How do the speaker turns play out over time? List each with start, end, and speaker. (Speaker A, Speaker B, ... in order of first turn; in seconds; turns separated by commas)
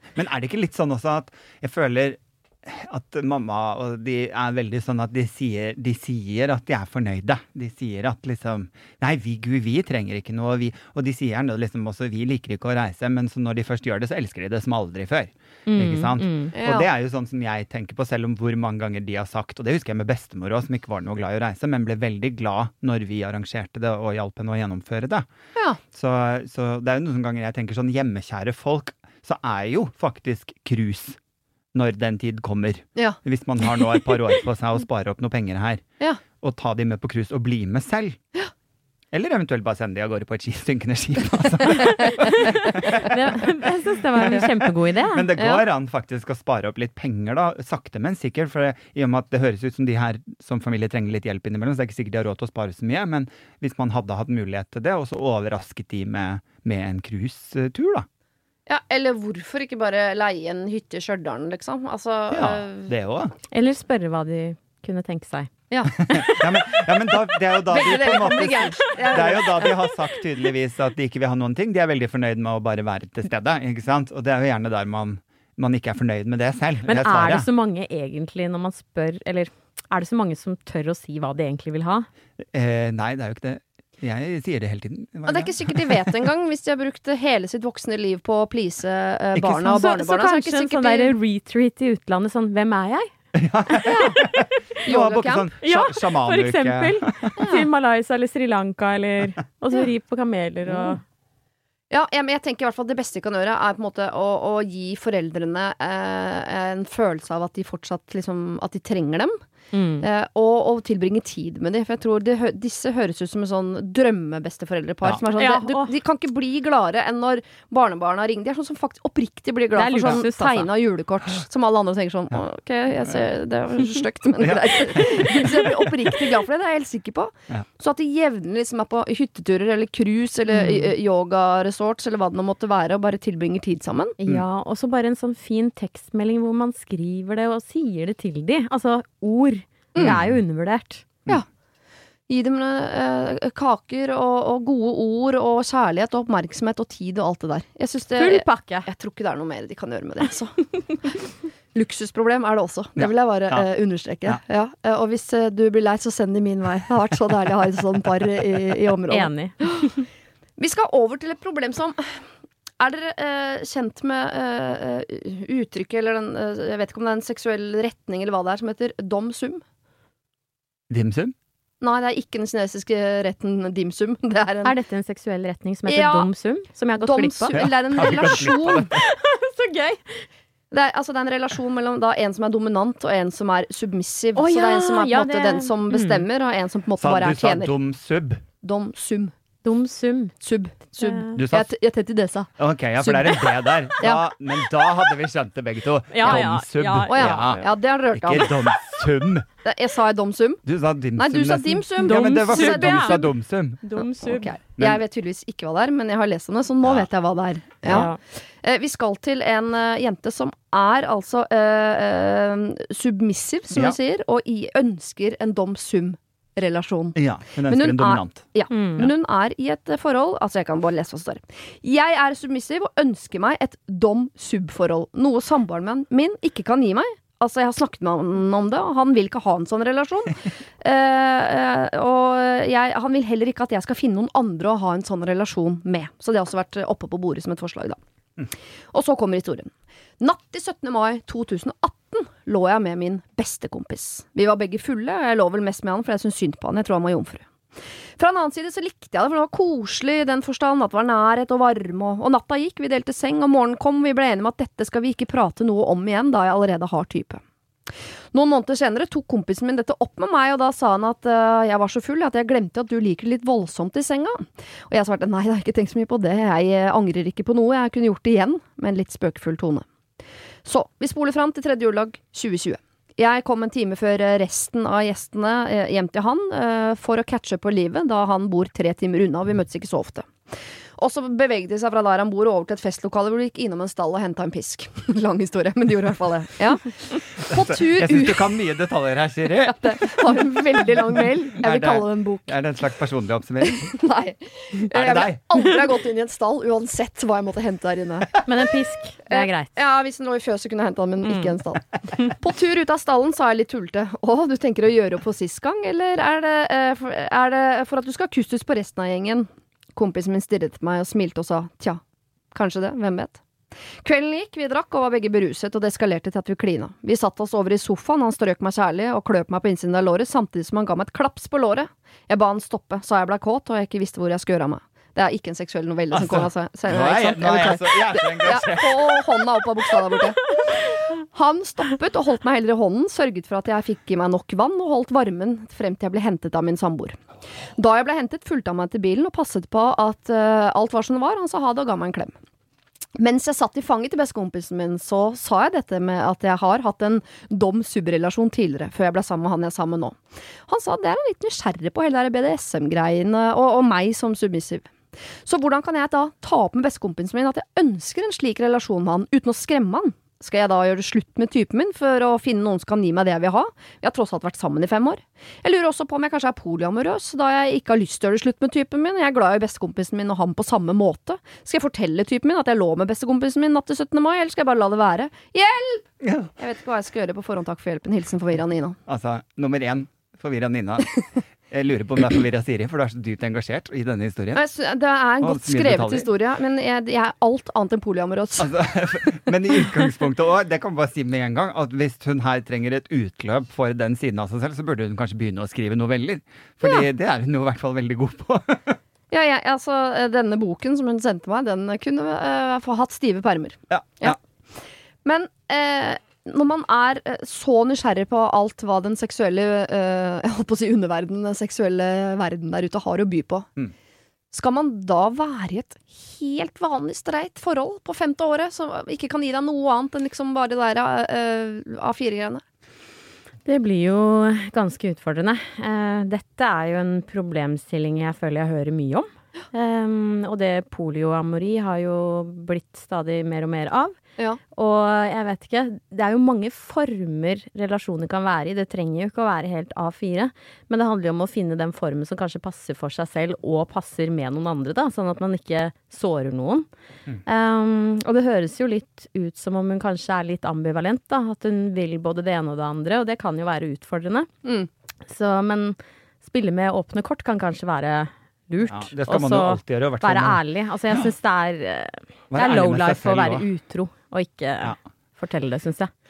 Speaker A: 0.1-25.3, Speaker B: 15.7-16.5, Speaker C: 16.6-16.9, Speaker A: 25.9-31.2, Speaker A: 31.7-35.8, Speaker A: 36.4-38.2, Speaker A: 39.1-43.5, Speaker B: 41.7-45.3, Speaker A: 44.2-58.1, Speaker C: 45.4-45.6, Speaker C: 58.7-62.9, Speaker A: 62.3-63.3, Speaker B: 63.5-65.5, Speaker B: 66.1-66.8, Speaker A: 66.1-77.5, Speaker C: 67.7-69.8, Speaker B: 76.9-82.1, Speaker A: 82.4-86.1, Speaker C: 85.3-91.1, Speaker A: 89.3-89.7, Speaker B: 89.7-93.1, Speaker A: 93.3-97.3, Speaker B: 93.7-94.8, Speaker C: 93.9-94.2, Speaker C: 94.9-95.5, Speaker B: 95.6-101.0, Speaker C: 97.4-97.7, Speaker C: 101.9-109.4, Speaker B: 109.7-110.1, Speaker C: 110.0-134.2, Speaker B: 115.3-115.9, Speaker B: 119.8-120.7, Speaker A: 124.4-125.6, Speaker B: 130.5-130.9, Speaker B: 134.2-141.1, Speaker A: 140.0-140.4, Speaker C: 142.3-150.7, Speaker B: 148.2-148.9, Speaker C: 151.7-159.9, Speaker A: 153.0-153.7, Speaker B: 159.1-160.0, Speaker C: 160.6-162.2, Speaker C: 162.8-169.6, Speaker A: 170.9-171.3, Speaker C: 171.8-174.8, Speaker B: 174.6-180.3, Speaker C: 175.9-176.3, Speaker C: 177.0-178.9, Speaker A: 177.5-179.1, Speaker C: 180.7-187.8, Speaker B: 184.4-186.2, Speaker A: 187.0-188.4, Speaker C: 188.6-189.3, Speaker B: 189.7-190.3, Speaker C: 190.4-194.3, Speaker B: 191.0-191.4, Speaker A: 191.4-191.7, Speaker A: 192.6-197.6, Speaker B: 196.1-197.7, Speaker C: 197.1-198.5, Speaker A: 198.1-199.5, Speaker C: 199.6-200.6, Speaker A: 200.7-203.8, Speaker C: 201.2-203.3, Speaker B: 202.0-203.2, Speaker B: 203.8-204.6, Speaker C: 204.2-208.1, Speaker B: 207.9-208.2, Speaker C: 208.6-238.0, Speaker A: 217.2-219.1, Speaker B: 218.7-219.1, Speaker C: 238.9-247.5, Speaker C: 248.2-257.4, Speaker C: 258.3-269.9, Speaker C: 270.6-288.6, Speaker A: 287.5-290.4, Speaker C: 289.7-292.6, Speaker A: 291.2-293.9, Speaker C: 293.7-298.4, Speaker A: 294.9-295.4, Speaker B: 298.5-299.7, Speaker C: 299.3-312.0, Speaker B: 301.2-301.5, Speaker C: 312.5-313.4, Speaker C: 314.0-337.2, Speaker A: 326.1-329.2, Speaker C: 337.8-342.3, Speaker C: 343.2-354.9, Speaker C: 355.4-376.1, Speaker A: 376.2-376.5, Speaker C: 376.6-379.0, Speaker A: 379.1-384.6, Speaker C: 384.6-389.3, Speaker A: 385.4-386.3, Speaker A: 388.6-399.0, Speaker C: 399.3-404.4, Speaker A: 403.9-404.4, Speaker C: 405.2-413.7, Speaker C: 414.5-422.6, Speaker B: 423.6-434.2, Speaker B: 434.8-446.9, Speaker B: 447.4-454.5, Speaker B: 455.3-466.1, Speaker A: 458.9-460.6, Speaker A: 462.5-463.7